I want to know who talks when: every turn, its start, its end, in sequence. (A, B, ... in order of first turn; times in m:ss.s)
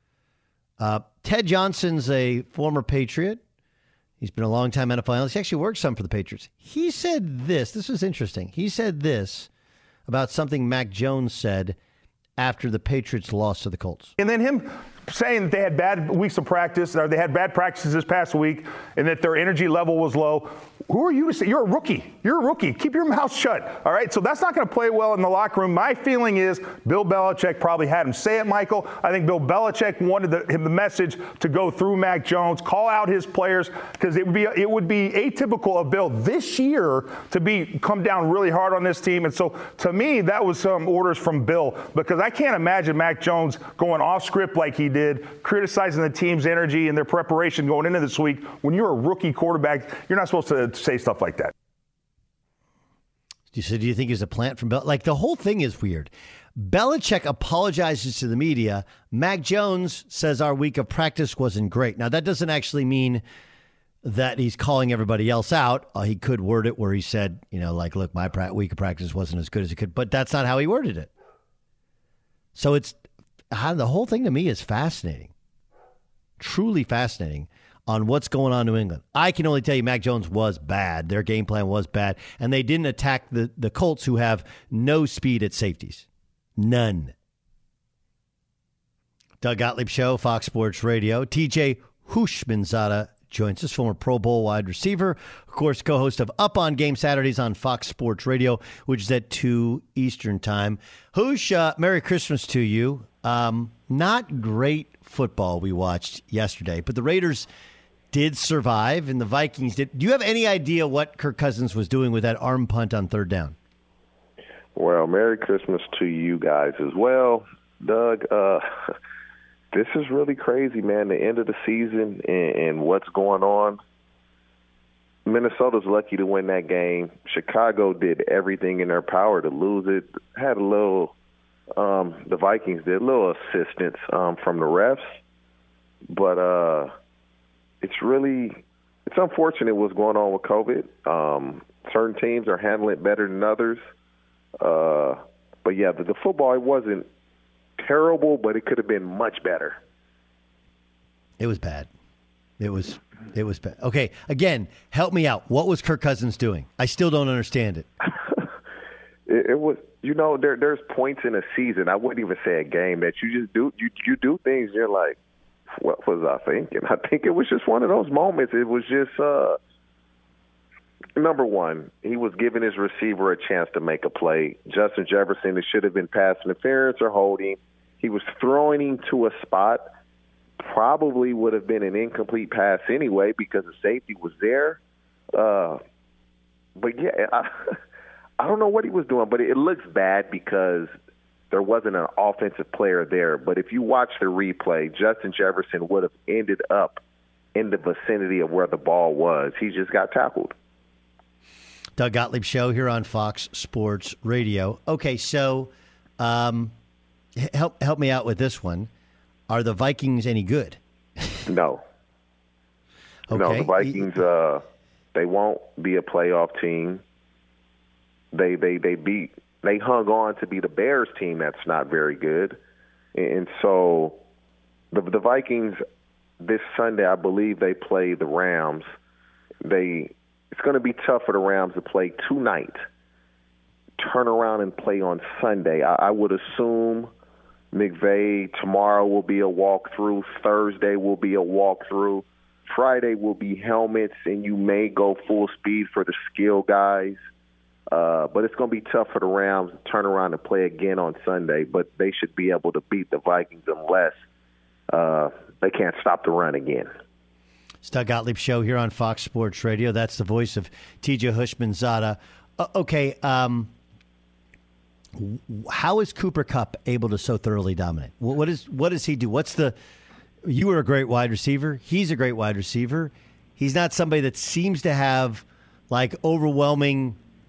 0:00.8-0:03.4 A
0:04.2-0:09.5 A
0:10.1-0:11.8 A
0:12.4-0:14.1 A
0:14.2-0:51.5 B
0:53.5-1:03.2 A
1:04.0-1:11.1 A
1:12.5-1:13.0 A
1:13.5-1:15.3 A
1:16.4-1:26.0 A
1:26.6-1:27.1 A
1:29.4-1:47.5 A
1:48.1-1:53.6 A
1:54.8-1:58.6 C
1:59.7-2:03.8 C
2:05.2-2:11.1 C
2:11.7-2:15.2 C
2:16.1-2:16.9 C
2:17.8-2:23.8 C
2:24.6-2:27.1 C
2:27.8-2:29.8 C
2:31.4-2:31.9 A
2:32.6-2:37.9 A
2:39.3-2:45.2 C
2:45.7-2:49.6 C
2:51.2-2:59.9 C
3:00.6-3:04.8 C
3:05.3-3:05.8 C
3:06.8-3:07.8 C
3:08.4-3:10.9 C
3:11.5-3:17.0 C
3:17.5-3:20.5 C
3:22.0-3:26.7 A
3:27.4-3:28.9 A
3:29.5-3:30.8 A
3:31.5-3:31.8 C
3:33.3-3:34.1 A
3:33.3-3:34.6 C
3:35.1-3:37.0 C
3:38.3-3:42.6 C
3:43.1-3:44.2 C
3:44.9-3:45.8 C
3:46.4-3:48.9 C
3:49.6-3:52.8 C
3:54.0-3:57.1 C
3:57.7-4:07.2 C
4:07.9-4:14.2 C
4:14.9-4:16.9 C
4:17.8-4:23.7 A
4:25.2-4:29.7 A
4:30.4-4:37.2 A